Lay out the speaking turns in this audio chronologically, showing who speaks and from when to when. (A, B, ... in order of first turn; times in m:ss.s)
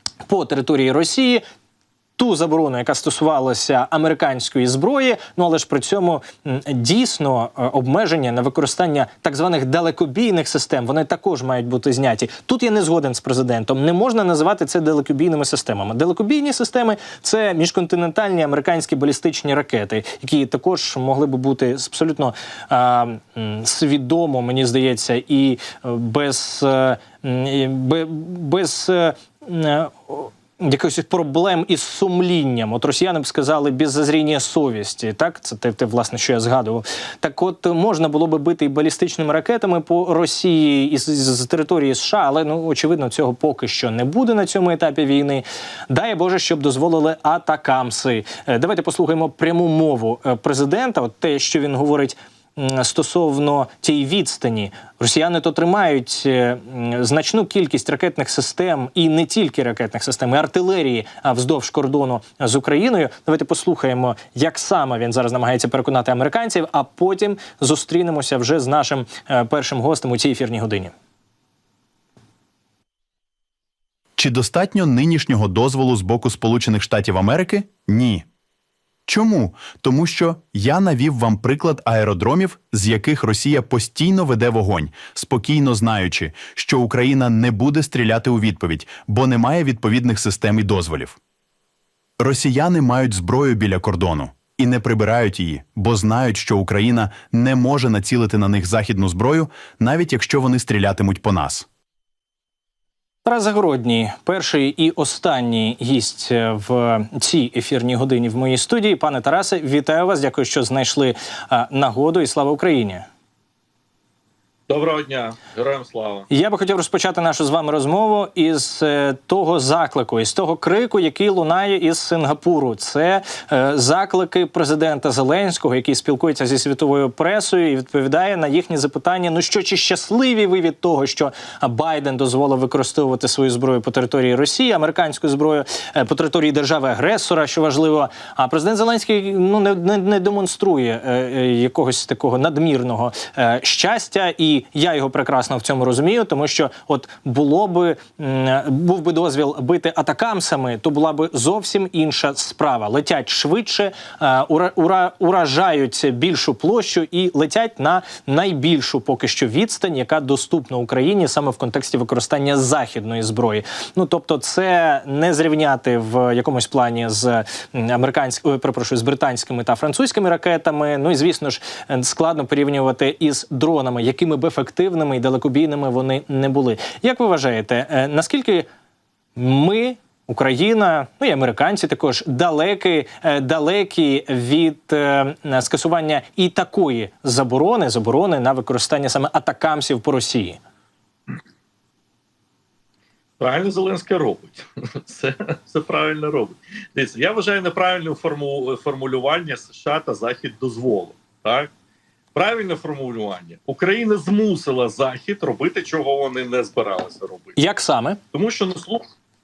0:00.3-0:01.4 A
0:02.2-1:10.9 A
1:14.2-1:18.3 B
1:19.1-1:31.2 B
1:32.2-1:41.7 B
1:43.2-1:53.0 A
1:54.7-1:56.3 C
1:56.3-2:58.7 A
2:59.4-3:10.6 A
3:13.4-3:21.7 C
3:22.3-3:27.6 C
3:27.6-3:28.2 A
3:28.3-3:29.0 C